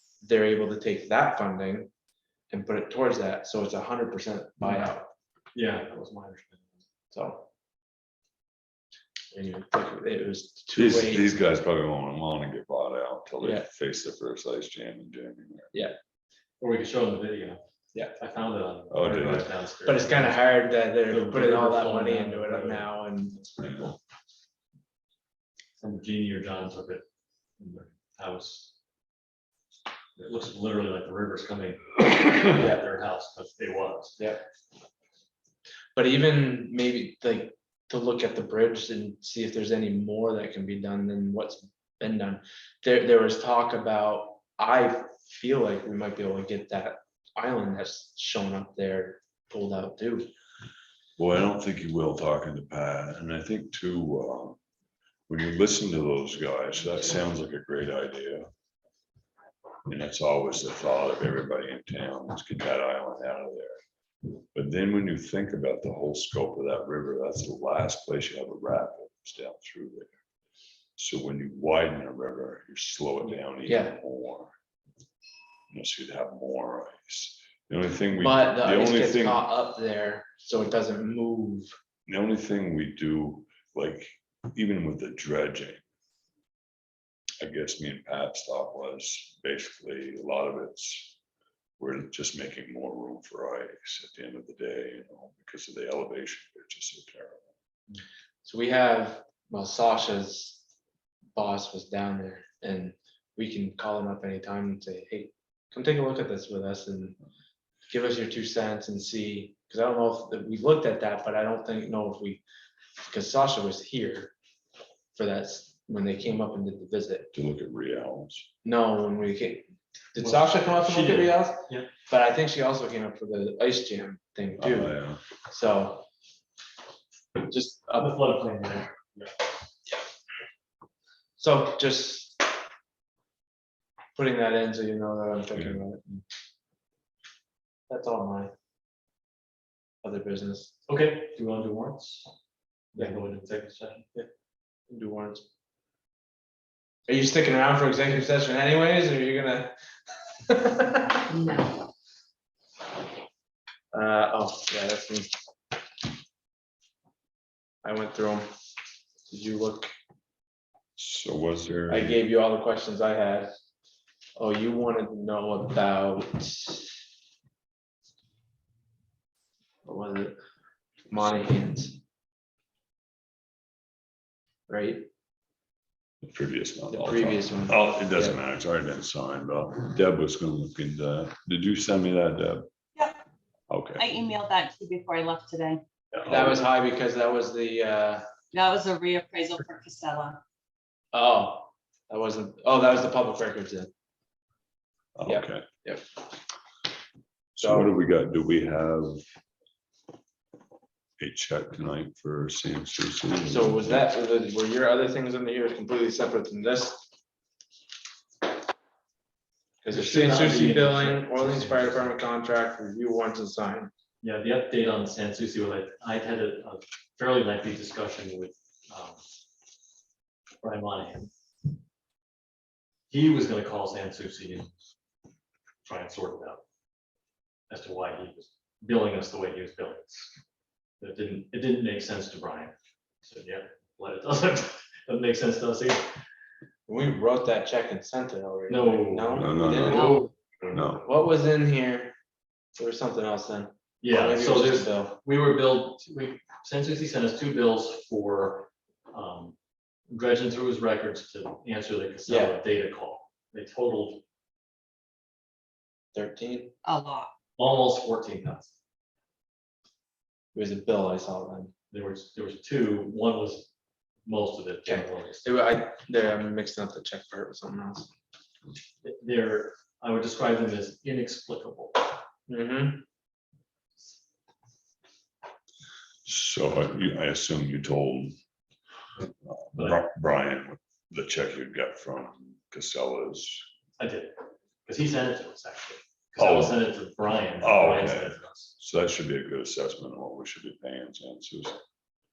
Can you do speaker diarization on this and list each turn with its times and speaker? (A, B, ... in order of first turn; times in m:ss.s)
0:00.2-0:01.9 A
0:02.5-0:05.1 A
0:05.6-0:06.7 B
0:07.1-0:07.5 A
0:09.3-0:11.4 A
0:10.8-0:15.7 C
0:13.4-0:13.7 A
0:16.6-0:17.6 B
0:18.2-0:22.9 B
0:18.9-0:19.5 C
0:19.8-0:24.0 A
0:25.8-0:27.0 B
0:27.6-0:28.7 B
0:30.2-0:34.2 B
0:36.0-0:50.3 A
0:51.2-0:54.6 C
0:55.3-0:58.5 C
0:59.9-1:03.8 C
1:04.5-1:10.2 C
1:11.0-1:14.5 C
1:13.6-1:14.0 A
1:15.7-1:19.4 C
1:18.1-1:21.7 A
1:22.1-1:25.8 C
1:27.4-1:31.2 C
1:31.8-1:37.4 C
1:38.4-1:40.6 A
1:41.4-1:47.2 A
1:47.9-1:52.4 A
1:53.0-1:54.3 A
1:55.2-1:57.3 A
1:57.3-1:58.5 C
1:58.6-2:05.0 A
2:00.2-2:01.9 B
2:04.6-2:05.2 C
2:05.5-2:06.1 A
2:07.4-2:08.1 A
2:07.9-2:09.4 B
2:11.4-2:12.4 A
2:14.2-2:16.2 A
2:15.5-2:15.8 C
2:17.9-2:18.5 A
2:20.0-2:20.7 A
2:20.9-2:22.3 B
2:22.9-2:24.0 B
2:24.9-2:25.4 A
2:27.1-2:29.7 A
2:30.4-2:31.3 A
2:31.3-2:31.7 D
2:33.9-2:35.3 A
2:37.8-2:38.5 A
2:39.3-2:39.9 A
2:41.0-2:42.2 C
2:41.9-2:43.5 A
2:44.4-2:46.9 A
2:49.8-2:50.4 A
2:51.1-2:52.0 A
2:54.7-2:55.1 A
2:56.2-3:02.7 C
2:56.9-2:58.4 A
3:03.7-3:04.0 C
3:04.0-3:05.8 D
3:06.1-3:06.6 C
3:06.3-3:08.2 A
3:08.5-3:10.4 D
3:11.1-3:13.9 A
3:15.2-3:15.7 C
3:15.3-3:16.0 A
3:17.6-3:19.2 C
3:17.6-3:17.9 A
3:21.2-3:24.0 C
3:23.4-3:27.1 A
3:29.8-3:33.9 A
3:29.9-3:32.1 B
3:34.2-3:39.2 B
3:40.6-3:41.3 B
3:43.1-3:44.7 B
3:45.8-3:46.6 B
3:47.7-3:50.3 B
3:51.0-3:56.1 B
3:56.9-4:00.3 A
3:58.7-4:01.0 B
3:59.3-4:01.0 C
3:59.9-4:00.3 D
4:01.0-4:02.1 A
4:02.8-4:05.2 A
4:04.0-4:09.6 B
4:10.1-4:14.2 B
4:12.3-4:12.6 A
4:16.1-4:16.7 A
4:16.8-4:17.3 D
4:17.6-4:18.7 B
4:20.5-4:21.7 A
4:21.9-4:23.7 B
4:24.3-4:25.5 B
4:24.9-4:28.1 A
4:29.0-4:32.1 B
4:32.5-4:33.0 A
4:36.2-4:38.4 C
4:39.4-4:43.6 C
4:39.8-4:40.0 B
4:44.0-4:44.4 B
4:44.9-4:48.7 B
4:46.4-4:46.8 C
4:47.6-4:51.8 C